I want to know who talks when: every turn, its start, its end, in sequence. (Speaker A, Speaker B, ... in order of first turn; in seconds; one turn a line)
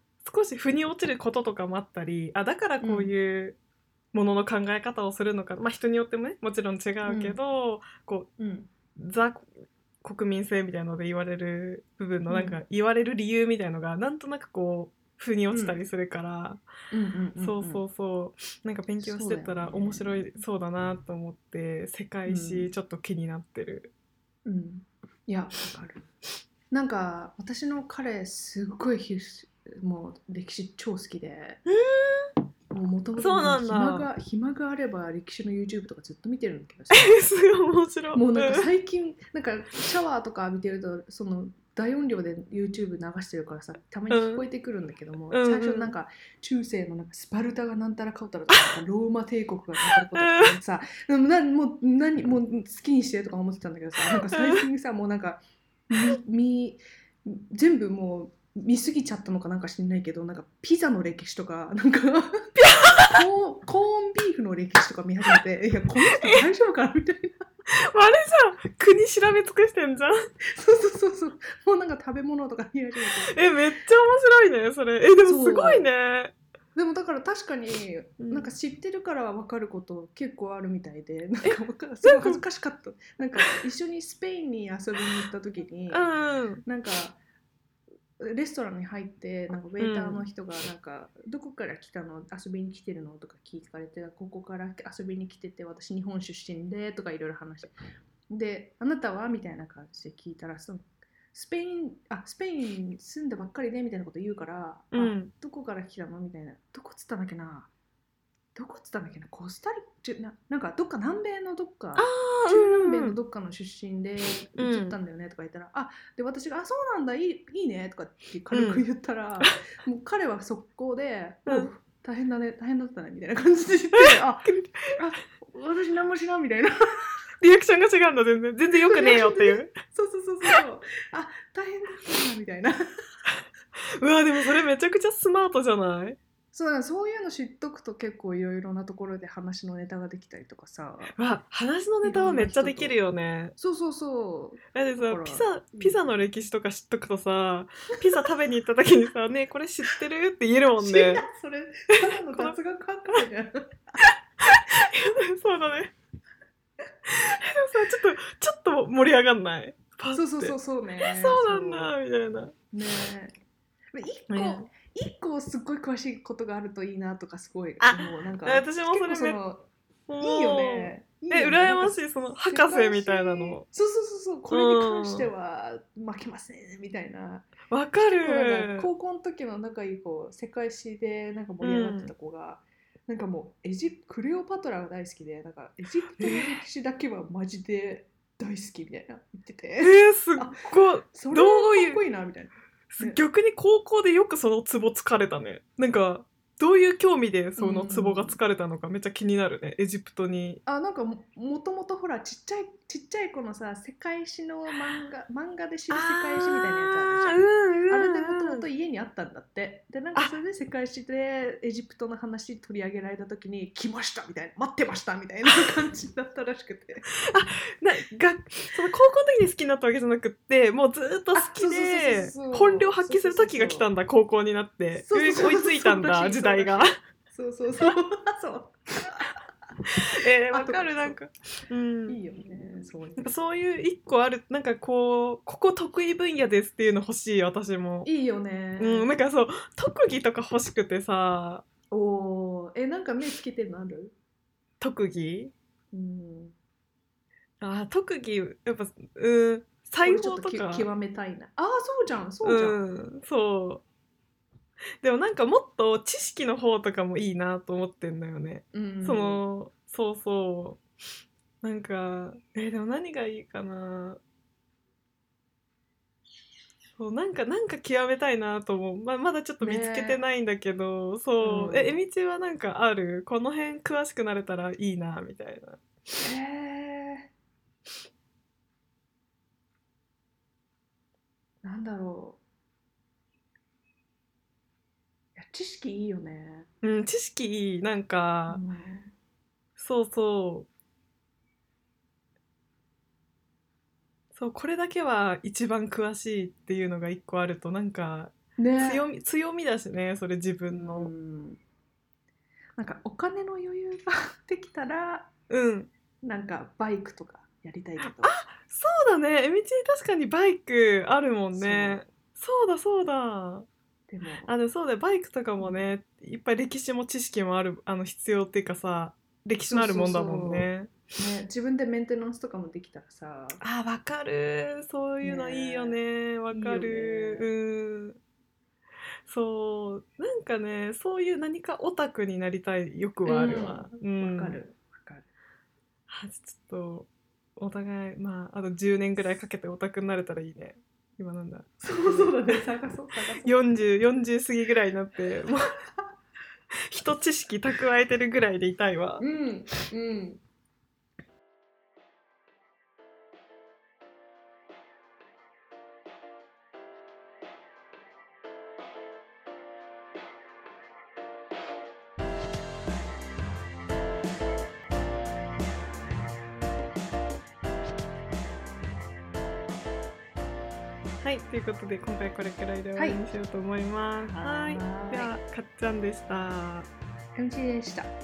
Speaker A: 0.2-3.6
Speaker B: 2.8-3.1
Speaker A: 4.1-8.3
Speaker B: 7.0-7.4
Speaker B: 8.4-8.7
Speaker A: 8.9-9.5
Speaker A: 10.0-16.6
Speaker B: 12.3-12.6
Speaker B: 15.5-15.8
Speaker B: 16.9-17.8
Speaker A: 17.4-23.9
Speaker B: 19.0-20.3
Speaker B: 22.2-22.7
Speaker B: 24.4-26.1
Speaker B: 26.7-31.6
Speaker A: 31.7-32.3
Speaker B: 32.7-37.2
Speaker A: 33.2-34.1
Speaker A: 36.9-38.7
Speaker B: 38.1-67.5
Speaker A: 44.1-44.4
Speaker A: 45.3-45.9
Speaker A: 49.9-50.6
Speaker A: 54.3-54.6
Speaker A: 62.6-63.2
Speaker A: 66.0-66.5
Speaker A: 67.7-70.1
Speaker B: 70.4-73.6
Speaker A: 73.3-76.3
Speaker B: 75.2-75.9
Speaker B: 76.7-86.1
Speaker A: 78.2-78.5
Speaker A: 81.4-82.4
Speaker A: 85.9-86.6
Speaker B: 86.6-87.2
Speaker B: 88.2-97.7
Speaker A: 89.8-90.3
Speaker B: 98.3-107.7
Speaker A: 104.9-105.3
Speaker B: 108.5-126.8
Speaker A: 112.0-113.1
Speaker A: 114.6-115.0
Speaker A: 118.5-118.8
Speaker A: 121.5-121.7
Speaker A: 123.9-125.0
Speaker A: 127.4-129.7
Speaker B: 128.8-132.8
Speaker A: 134.0-136.2
Speaker B: 136.5-141.2
Speaker A: 141.2-143.5
Speaker B: 142.0-143.0
Speaker B: 143.6-146.0
Speaker A: 144.7-151.2
Speaker B: 150.8-154.0
Speaker A: 151.9-152.6
Speaker A: 154.0-155.9
Speaker A: 157.1-162.6
Speaker B: 160.1-161.9
Speaker B: 162.7-163.3
Speaker B: 163.9-169.7
Speaker A: 164.3-164.7
Speaker A: 167.8-169.4
Speaker A: 170.1-173.6
Speaker B: 170.2-190.6
Speaker A: 174.5-175.3
Speaker A: 177.7-178.9
Speaker A: 181.6-182.1
Speaker A: 186.2-186.6
Speaker A: 189.8-192.0
Speaker B: 191.1-193.2
Speaker A: 192.9-200.6
Speaker B: 197.6-198.4
Speaker B: 200.7-217.1
Speaker A: 205.9-208.6
Speaker A: 217.2-227.0
Speaker B: 221.3-223.9
Speaker B: 224.9-229.4
Speaker B: 230.0-231.2
Speaker A: 230.0-232.2
Speaker B: 232.1-233.3
Speaker A: 233.2-238.1
Speaker B: 238.0-239.1
Speaker A: 238.8-241.6
Speaker B: 241.9-244.1
Speaker A: 244.8-245.5
Speaker B: 245.9-246.5
Speaker A: 247.6-250.9
Speaker B: 250.0-252.8
Speaker A: 252.4-253.8
Speaker A: 255.0-260.8
Speaker B: 258.7-259.4
Speaker A: 261.6-264.2
Speaker A: 267.0-275.8
Speaker B: 269.6-270.2
Speaker B: 271.4-272.0
Speaker B: 276.2-277.3
Speaker B: 281.6-282.4
Speaker B: 285.4-286.7
Speaker A: 286.8-288.6
Speaker B: 288.5-289.1
Speaker A: 289.8-290.7
Speaker A: 294.3-301.1
Speaker B: 298.6-299.0
Speaker B: 300.7-301.6
Speaker B: 302.8-305.3
Speaker A: 305.5-305.9
Speaker B: 306.2-308.4
Speaker A: 308.0-313.7
Speaker B: 311.5-312.0
Speaker B: 314.1-314.5
Speaker A: 314.4-320.9
Speaker B: 319.7-323.6
Speaker A: 323.6-328.2
Speaker B: 325.2-326.0
Speaker B: 326.5-327.5
Speaker A: 329.2-334.6
Speaker B: 333.2-335.3
Speaker A: 336.1-342.6
Speaker B: 341.8-343.6
Speaker A: 343.4-345.7
Speaker A: 346.9-349.2
Speaker B: 349.2-350.4
Speaker A: 371.2-376.9
Speaker B: 372.9-373.2
Speaker B: 374.2-375.3
Speaker B: 377.4-378.1